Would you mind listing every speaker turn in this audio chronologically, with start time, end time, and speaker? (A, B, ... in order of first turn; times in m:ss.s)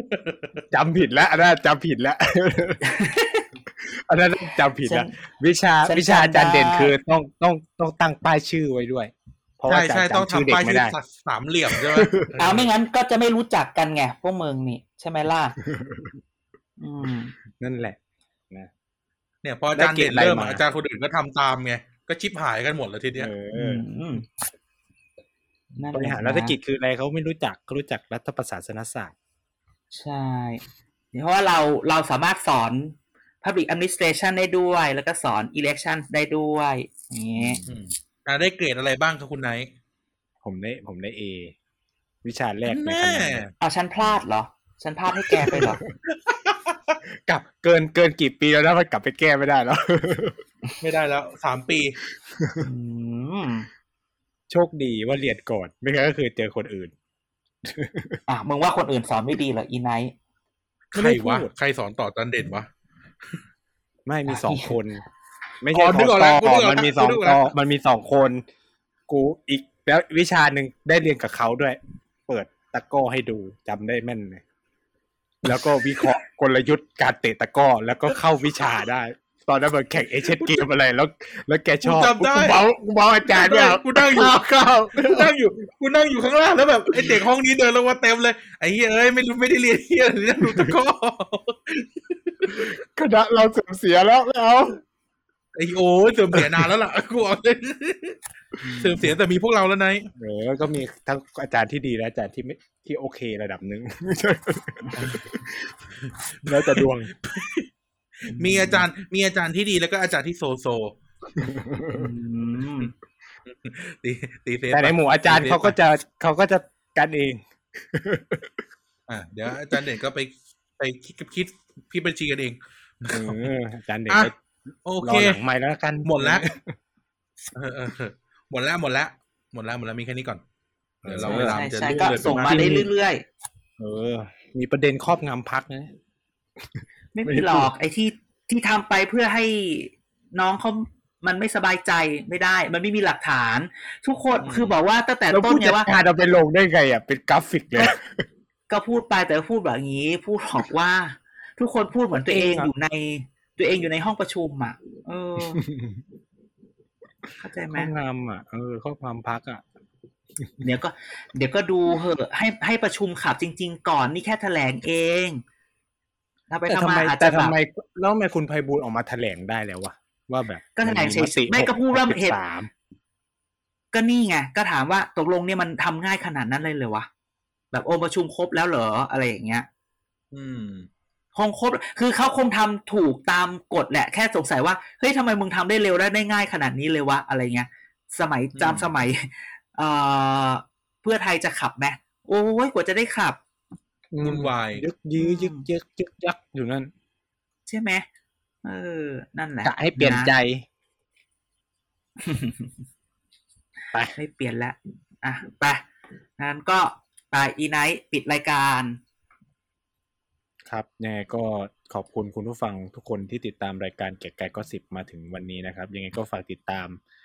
0:00.1-0:00.6 A
0:00.7-0:02.8 B
0:02.8-0:03.5 C
0:03.8-0:11.0 B
0:04.8-0:05.1 C
0:05.8-0:06.9 C
0:09.7-0:12.7 A
0:11.7-0:12.3 B
0:12.4-0:15.6 C
0:15.7-0:16.1 B
0:16.8-0:17.3 C
0:17.6-0:18.0 B
0:19.4-0:23.3 A
0:19.8-0:20.6 B
0:23.2-0:23.9 B
0:23.5-0:24.3 C
0:25.8-0:26.6 C
0:25.9-0:29.1 B
0:29.9-0:30.6 C
0:31.1-0:37.6 C
0:37.4-0:37.8 B
0:37.7-0:39.7 A
0:40.4-0:41.6 B
0:42.2-0:43.4 B
0:42.7-0:43.5 A
0:43.6-0:45.8 C
0:45.4-0:45.9 B
0:46.1-0:47.0 A
0:47.3-0:50.4 B
0:50.8-0:52.0 A
0:52.3-0:52.6 B
0:52.6-0:53.7 C
0:54.5-0:56.9 B
0:57.6-0:58.2 B
0:58.3-1:00.1 C
1:00.9-1:02.7 A
1:00.9-1:01.5 B
1:04.1-1:05.0 B
1:04.3-1:04.8 C
1:05.6-1:08.4 B
1:05.7-1:07.5 A
1:09.1-1:14.4 B
1:15.4-1:25.3 B
1:20.4-1:20.7 A
1:21.8-1:22.6 A
1:23.3-1:24.4 A
1:24.9-1:32.7 A
1:26.9-1:27.2 B
1:30.4-1:30.8 B
1:32.5-1:34.8 B
1:35.6-1:38.2 A
1:36.3-1:36.7 B
1:38.6-1:39.1 C
1:38.8-1:40.1 A
1:40.2-1:45.8 B
1:45.0-1:45.2 A
1:46.0-1:47.7 A
1:46.5-1:47.1 B
1:48.2-1:51.0 A
1:51.4-1:52.1 B
1:51.9-1:52.9 C
1:53.5-1:55.8 A
1:54.7-1:58.6 B
1:59.1-2:03.6 A
2:03.1-2:04.3 B
2:04.9-2:05.4 A
2:05.0-2:06.7 B
2:06.0-2:06.5 A
2:07.5-2:10.4 A
2:11.0-2:11.6 B
2:11.0-2:12.8 A
2:11.2-2:13.2 C
2:12.3-2:12.9 B
2:13.8-2:15.9 B
2:16.6-2:17.7 B
2:17.2-2:25.9 C
2:24.4-2:24.8 A
2:25.3-2:28.2 B
2:28.7-2:35.6 C
2:32.3-2:32.7 B
2:35.4-2:36.0 B
2:37.4-2:37.9 C
2:37.7-2:39.6 B
2:40.4-2:40.7 B
2:40.6-2:45.4 C
2:46.5-2:47.5 C
2:46.7-2:52.7 B
2:50.8-2:52.4 C
2:53.9-2:57.1 C
2:57.7-2:59.7 C
3:00.3-3:00.9 A
3:01.4-3:13.4 C
3:08.6-3:08.9 A
3:14.1-3:16.9 B
3:14.2-3:14.8 A
3:15.2-3:15.6 C
3:17.7-3:18.1 C
3:18.6-3:20.3 C
3:19.6-3:20.6 B
3:22.2-3:22.7 C
3:24.2-3:25.8 C
3:26.4-3:29.0 C
3:30.7-3:37.0 B